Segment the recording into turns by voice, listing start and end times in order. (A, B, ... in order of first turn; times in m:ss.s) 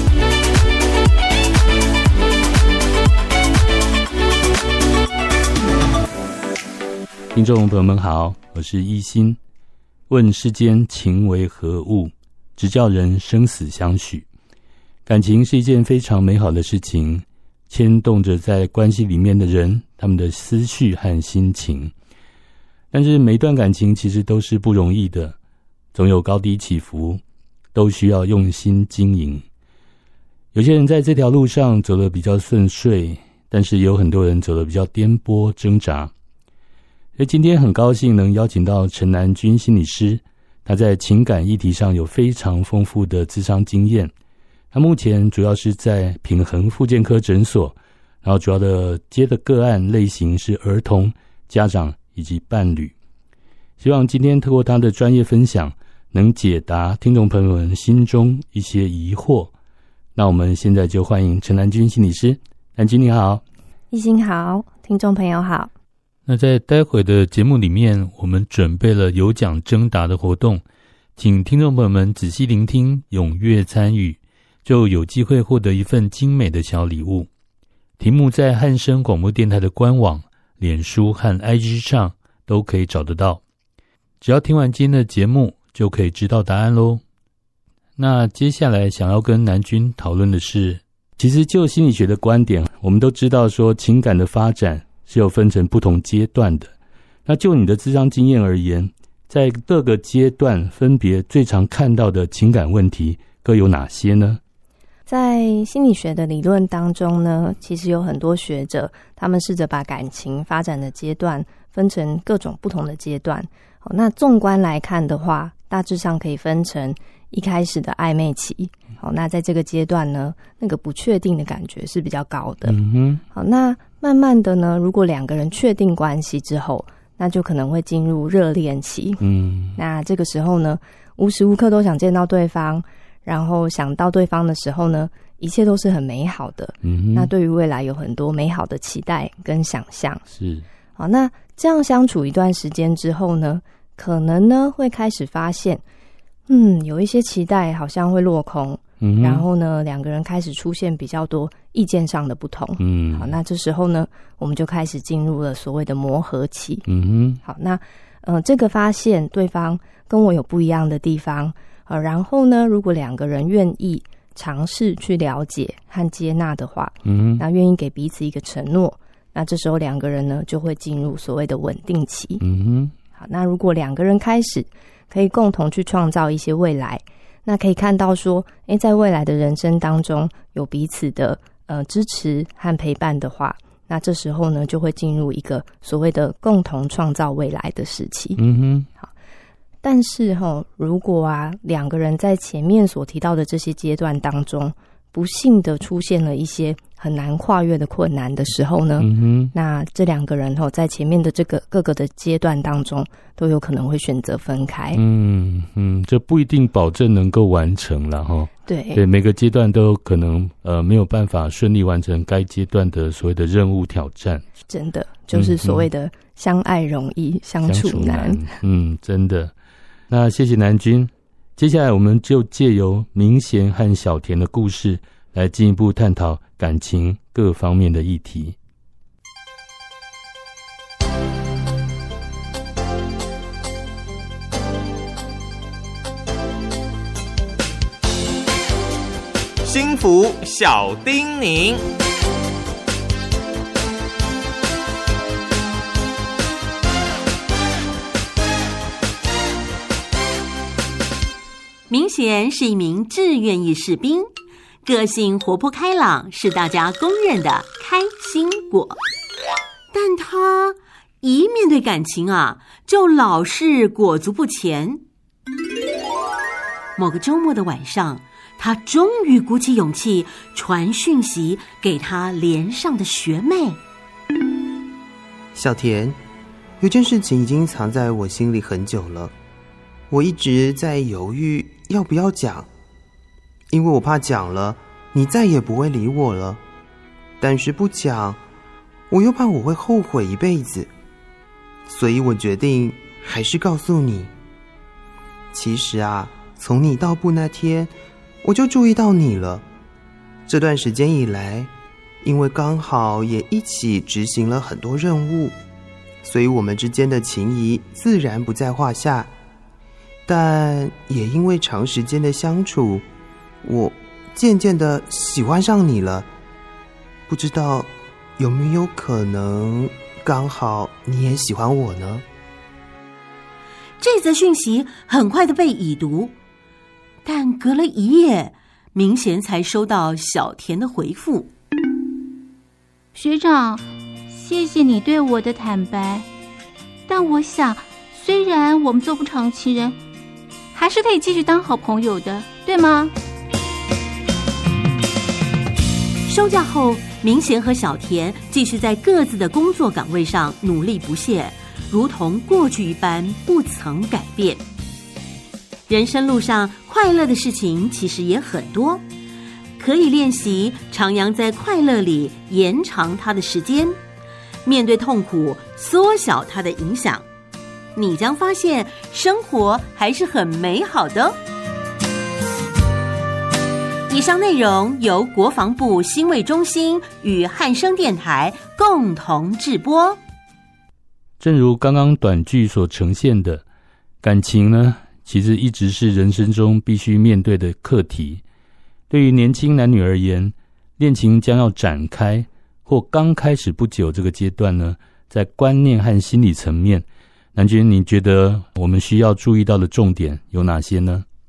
0:07.3-0:09.4 A
0:10.1-0:14.3 A
0:15.1-0:21.9 A
0:22.9-0:25.4 A
0:25.9-0:27.2 A
0:27.7-0:29.4 A
0:30.5-0:36.1 A
0:37.2-0:44.1 A
0:44.7-0:52.9 A
0:53.8-0:59.5 A
1:00.2-1:03.4 A
1:03.9-1:05.7 B
1:06.3-1:10.6 A
1:11.2-1:17.3 A
1:18.0-1:23.4 A
1:24.2-1:27.0 A
1:28.0-1:36.7 A
1:37.3-1:44.4 A
1:45.1-2:02.8 B
2:02.6-2:03.2 A
2:03.3-2:09.2 B
2:09.2-2:09.8 A
2:09.8-2:20.2 B
2:16.8-2:17.3 A
2:20.3-2:20.6 A
2:21.0-2:25.8 B
2:26.5-2:36.9 B
2:29.0-2:29.4 A
2:32.8-2:33.4 A
2:36.9-2:37.4 A
2:37.4-2:52.4 B
2:47.0-2:47.4 A
2:52.4-2:52.9 A
2:53.2-3:08.4 B
3:08.4-3:08.9 A
3:09.8-3:25.0 B
3:19.0-3:19.5 A
3:24.9-3:34.4 A
3:28.7-3:29.0 B
3:34.7-3:38.5 B
3:35.3-3:35.9 A
3:37.6-3:39.5 A
3:40.1-3:48.6 A
3:59.6-4:01.8 C
4:11.9-4:14.3 D
4:14.8-4:19.0 D
4:19.9-4:25.0 D
4:27.0-4:33.8 D
4:35.6-4:36.2 E
4:36.8-4:39.3 E
4:40.1-4:42.7 E
4:43.7-4:46.6 E
4:47.4-4:48.4 E
4:49.1-4:50.9 E
4:51.9-4:54.3 E
4:55.5-4:59.6 E
5:00.5-5:01.7 E
5:02.2-5:05.6 E
5:06.2-5:09.3 E
5:10.3-5:13.1 E
5:13.6-5:16.3 E
5:17.3-5:22.2 E
5:24.0-5:26.3 D
5:27.2-5:31.5 D
5:33.2-5:36.3 F
5:37.1-5:40.0 F
5:40.7-5:43.1 F
5:46.3-5:54.6 D
5:55.9-5:59.0 D
5:59.8-6:04.0 D
6:04.6-6:07.2 D
6:08.0-6:11.4 D
6:14.1-6:20.2 D
6:21.4-6:23.6 A
6:24.2-6:28.4 A
6:29.1-6:41.2 A